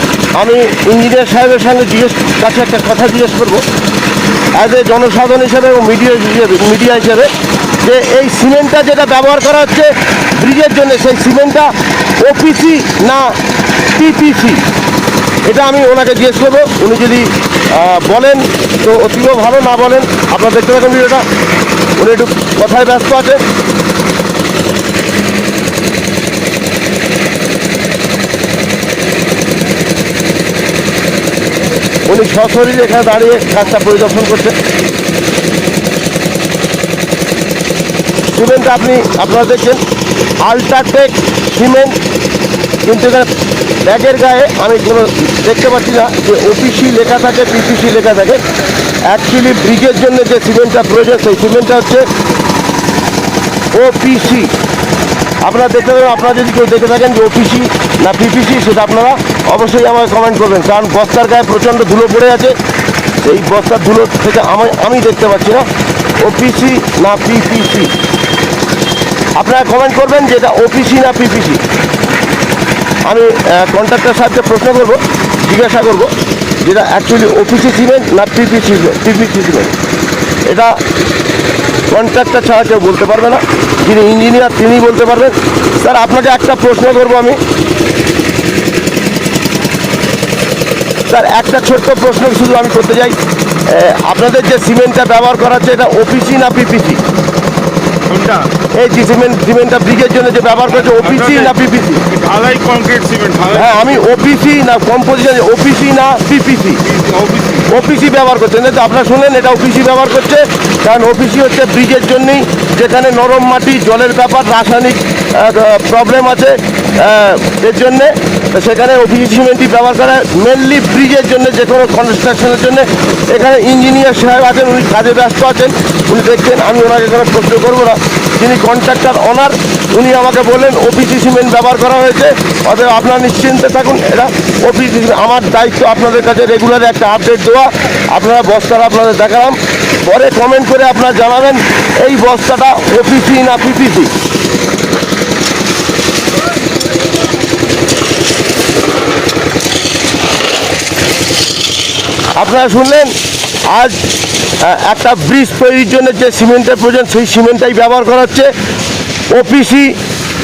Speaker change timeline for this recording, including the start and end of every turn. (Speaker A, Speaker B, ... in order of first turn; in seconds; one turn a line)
Speaker A: 0.3-3.6
Speaker A: 4.5-13.4
Speaker A: 13.9-14.6
Speaker A: 15.4-21.2
Speaker A: 22.0-23.4
Speaker A: 32.1-34.6
Speaker A: 38.3-39.8
Speaker A: 40.4-42.0
Speaker A: 42.8-43.3
Speaker A: 43.8-48.4
Speaker A: 49.0-52.1
Speaker A: 53.7-54.5
Speaker A: 55.4-62.5
Speaker A: 63.2-65.7
Speaker A: 66.2-67.9
Speaker A: 69.3-71.6
Speaker A: 73.0-79.7
Speaker A: 80.5-80.8
Speaker A: 81.9-87.4
Speaker A: 91.1-97.0
Speaker B: 98.1-98.5
Speaker A: 98.7-102.1
Speaker B: 100.8-103.9
Speaker A: 103.5-106.8
Speaker B: 106.8-107.7
Speaker A: 107.7-144.1
Speaker A: 152.3-154.0
Speaker A: 154.6-158.5
Speaker A: 159.3-160.0